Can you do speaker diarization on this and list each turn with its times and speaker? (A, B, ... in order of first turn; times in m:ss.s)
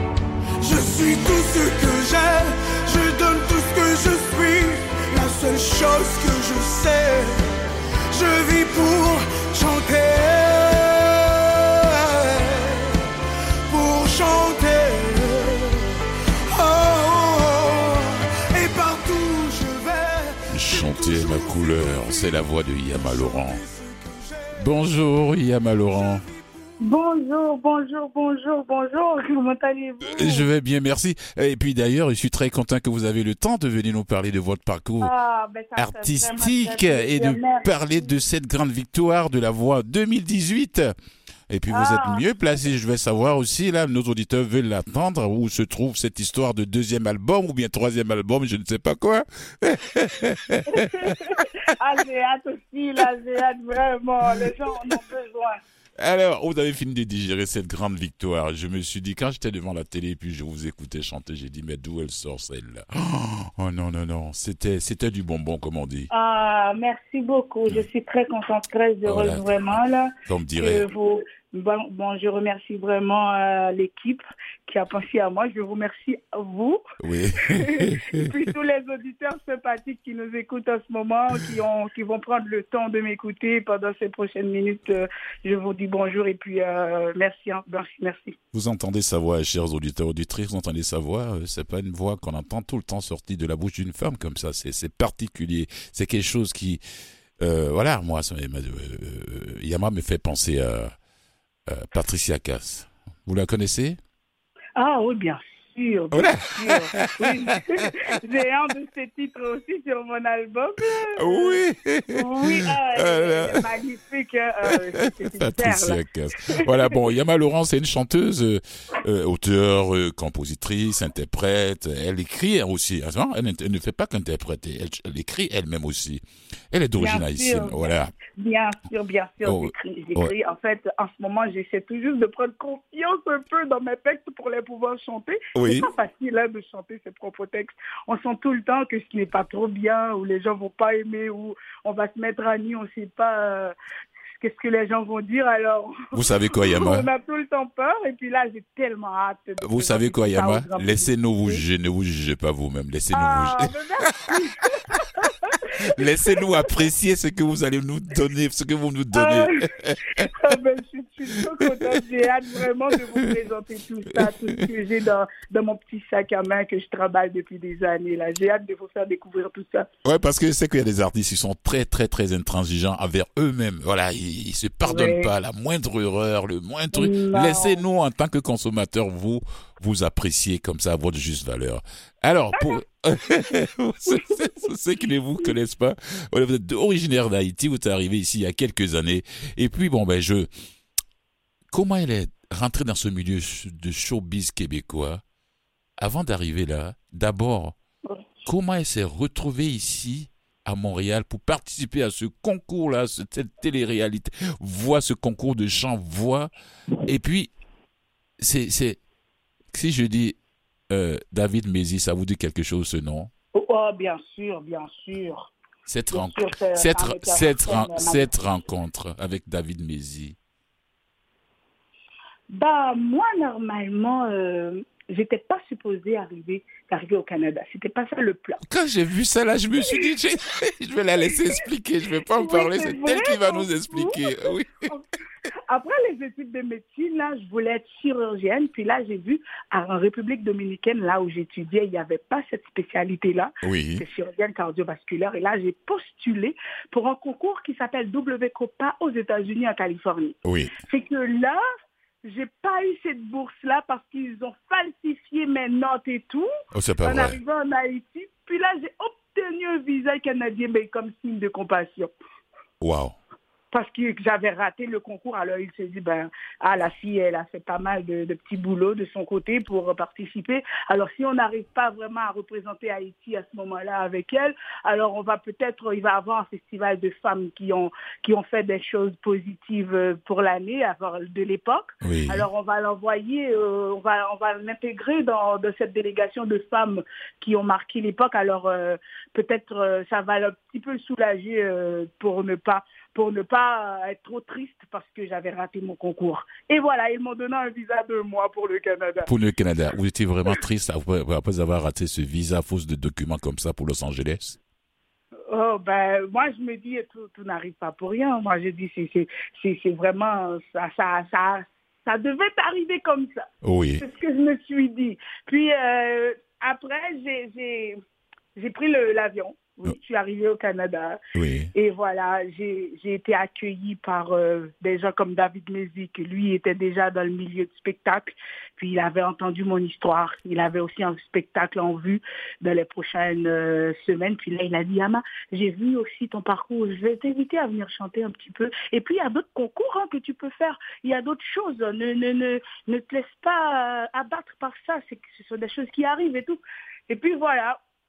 0:00.6-0:07.6 A
0:08.1-0:13.1 A
0:13.7-0:15.9 A
0:16.5-0:24.9 A
0:20.5-0:23.6 B
0:24.5-0:26.2 B
0:25.9-0:26.8 A
0:26.8-0:30.5 C
0:30.0-0:35.1 B
0:35.0-0:37.7 C
0:35.8-0:40.9 B
0:41.5-0:51.4 B
0:41.7-0:42.2 C
0:50.7-0:55.6 C
0:54.3-0:54.9 B
0:56.0-1:06.1 B
1:06.1-1:16.8 C
1:09.0-1:10.8 B
1:17.0-1:18.4 B
1:17.4-1:28.4 C
1:28.5-1:36.8 B
1:37.4-1:40.9 B
1:41.7-1:44.0 B
1:44.8-1:51.6 C
1:46.1-1:47.9 B
1:51.2-1:53.6 B
1:52.1-1:57.1 C
1:55.2-2:08.1 B
2:07.0-2:23.7 C
2:09.4-2:10.3 B
2:15.5-2:15.9 B
2:24.3-2:31.6 C
2:26.1-2:27.1 B
2:29.6-2:33.8 B
2:33.1-2:36.4 C
2:34.9-2:35.2 B
2:35.8-2:40.3 B
2:39.1-2:39.5 C
2:40.2-2:49.9 C
2:41.3-2:41.7 B
2:42.9-2:43.2 B
2:44.1-2:44.7 B
2:50.0-3:10.5 B
2:54.8-2:55.3 C
2:56.9-2:57.8 C
3:04.1-3:04.4 C
3:11.7-3:15.2 B
3:16.0-3:17.7 B
3:18.0-3:18.5 C
3:18.4-3:26.5 B
3:27.0-3:27.5 B
3:28.4-3:29.0 B
3:29.7-3:30.4 B
3:30.9-3:33.3 B
3:33.5-3:35.5 C
3:35.9-3:40.4 B
3:36.1-3:38.3 C
3:42.5-3:48.6 C
3:48.6-3:54.9 B
3:52.3-3:55.1 C
3:55.7-4:11.6 C
4:03.6-4:04.0 B
4:10.4-4:10.7 B
4:12.2-4:16.5 C
4:16.7-4:17.4 B
4:17.0-4:22.1 C
4:22.8-4:23.2 B
4:23.7-4:59.3 C
4:42.0-4:42.5 B
4:59.2-5:04.6 B
5:05.5-5:18.0 C
5:13.6-5:14.0 B
5:18.5-5:21.2 C
5:21.3-5:21.7 B
5:21.7-5:47.8 C